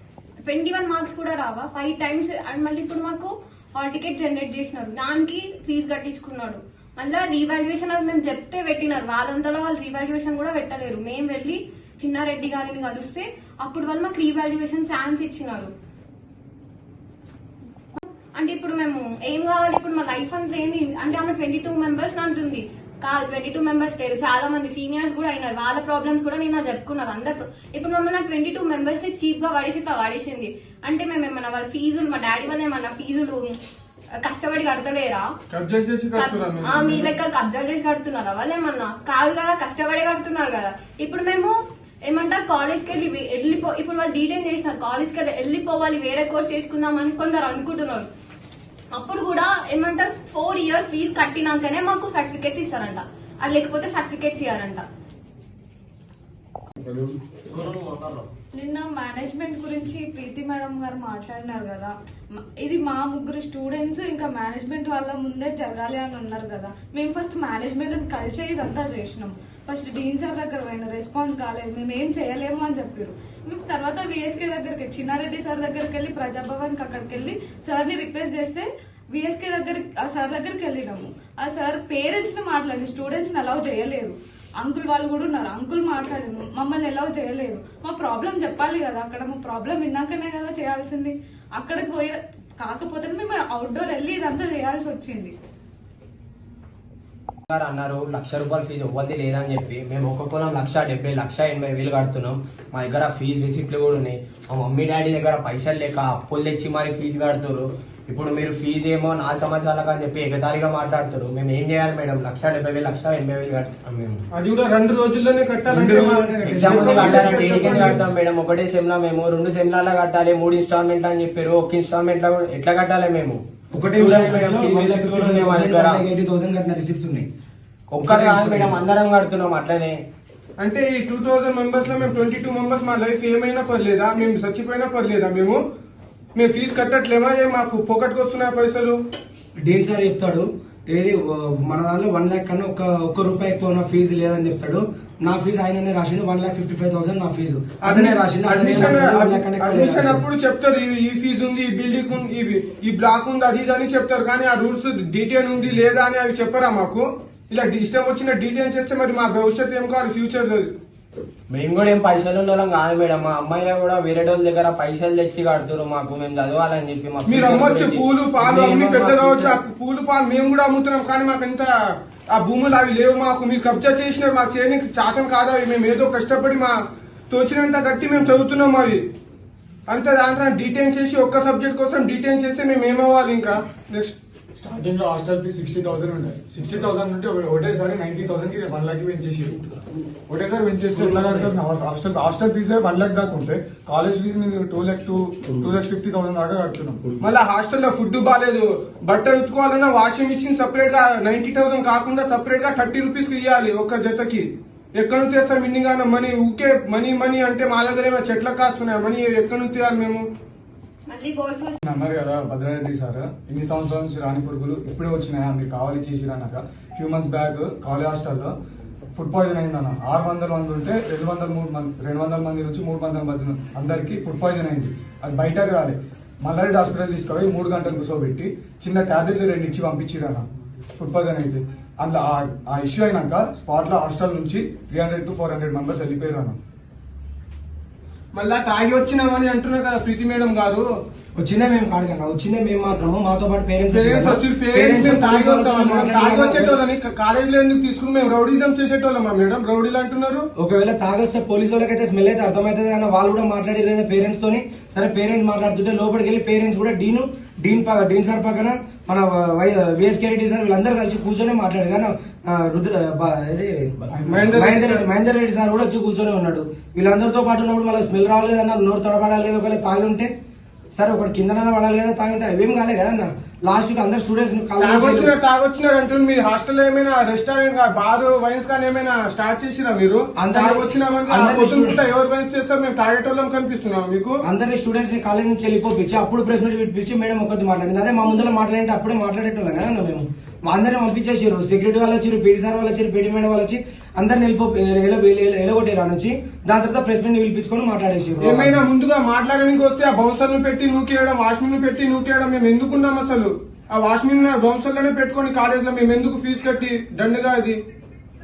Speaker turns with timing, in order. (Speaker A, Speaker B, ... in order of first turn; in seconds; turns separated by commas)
Speaker A: 0.4-15.7, Speaker A: 18.0-33.5, Speaker A: 34.2-35.3, Speaker B: 35.5-37.1, Speaker A: 36.1-41.5, Speaker A: 42.0-48.1, Speaker A: 48.9-54.8, Speaker C: 56.9-58.3, Speaker D: 58.5-95.3, Speaker C: 97.5-114.2, Speaker B: 114.3-118.0, Speaker E: 115.7-117.5, Speaker C: 116.4-123.4, Speaker E: 123.7-127.3, Speaker C: 123.9-126.0, Speaker C: 127.9-130.0, Speaker E: 128.2-128.8, Speaker B: 130.6-135.6, Speaker B: 136.3-139.0, Speaker E: 139.6-150.2, Speaker B: 147.8-160.7, Speaker C: 161.5-169.4, Speaker B: 167.2-171.7, Speaker B: 172.3-176.8, Speaker B: 177.3-179.1, Speaker B: 179.9-184.1, Speaker F: 184.6-197.2, Speaker B: 197.2-210.3, Speaker A: 211.1-211.8, Speaker F: 211.8-218.5, Speaker F: 219.1-236.6, Speaker B: 238.3-240.9, Speaker E: 241.4-246.8, Speaker B: 243.9-250.5, Speaker E: 250.6-270.3, Speaker F: 264.1-264.5, Speaker B: 264.3-265.0, Speaker E: 270.9-275.3, Speaker B: 274.8-284.4, Speaker E: 280.4-282.0, Speaker E: 284.4-298.8, Speaker B: 298.4-307.8